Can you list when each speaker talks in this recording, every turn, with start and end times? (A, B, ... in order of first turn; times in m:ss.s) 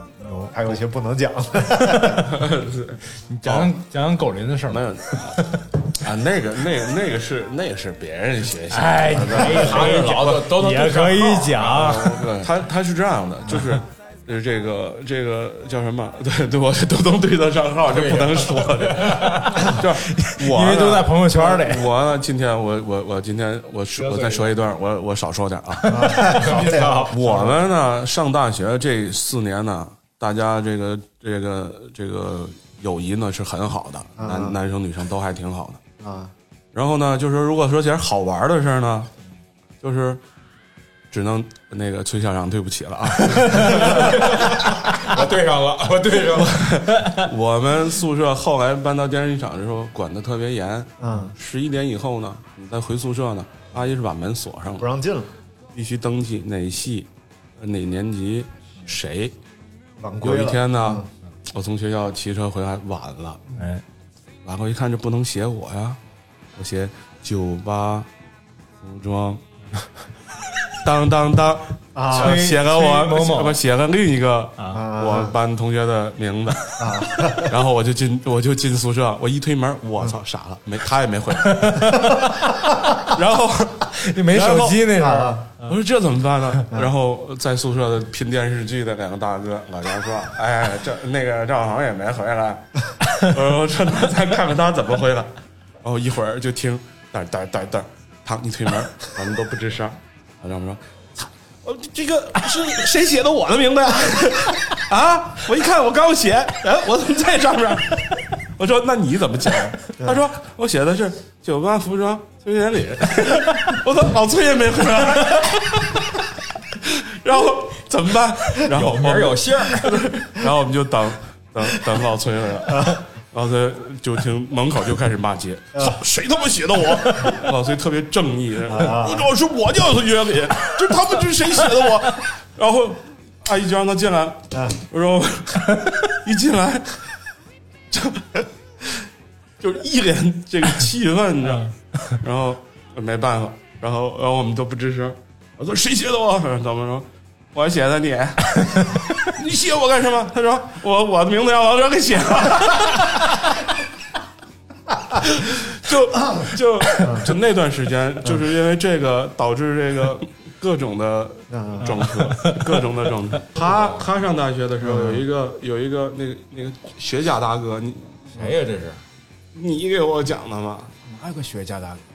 0:00.2-0:00.5 A
0:00.5-0:02.3 B
0:01.8-0:02.2 A
0:02.3-0:03.7 C
0:03.3-0:05.6 A
0:04.7-0:10.4 C
0:08.7-0:12.3 A
0:09.3-0:11.8 D
0:11.6-0:26.2 C
0:17.9-0:19.7 D
0:19.6-0:21.9 A
0:24.0-0:24.4 A
0:25.9-0:27.5 B
0:26.1-0:27.1 D
0:27.1-0:35.8 C
0:34.2-0:34.6 B
0:36.0-0:36.3 B
0:36.7-0:39.1 C
0:39.8-0:40.2 C
0:41.1-0:44.4 C
0:43.8-0:46.6 D
0:46.3-0:54.9 C
0:51.0-0:51.3 B
0:54.8-0:55.3 B
0:55.7-0:57.1 C
0:57.6-0:59.3 C
1:00.0-1:01.1 B
1:00.2-1:03.4 C
1:03.5-1:03.8 A
1:04.4-1:06.0 C
1:06.6-1:08.1 C
1:08.8-1:09.4 C
1:10.8-1:21.9 C
1:11.9-1:12.5 B
1:12.1-1:13.6 A
1:14.6-1:14.8 A
1:14.7-1:15.4 B
1:16.8-1:17.6 B
1:21.4-1:22.5 A
1:23.0-1:24.8 C
1:23.9-1:25.7 A
1:24.9-1:25.4 B
1:25.6-1:32.6 C
1:33.2-1:35.3 C
1:35.8-1:56.2 C
1:56.7-2:17.0 C
1:58.7-2:00.0 D
2:02.7-2:03.0 B
2:08.7-2:09.3 B
2:14.5-2:14.8 B
2:17.9-2:18.4 C
2:19.6-2:33.2 C
2:35.2-2:48.3 C
2:37.0-2:37.3 B
2:41.5-2:42.1 B
2:41.8-2:42.7 A
2:43.6-2:44.0 D
2:44.8-2:45.2 B
2:48.3-2:49.0 D
2:49.5-2:50.9 C
2:51.1-2:52.0 D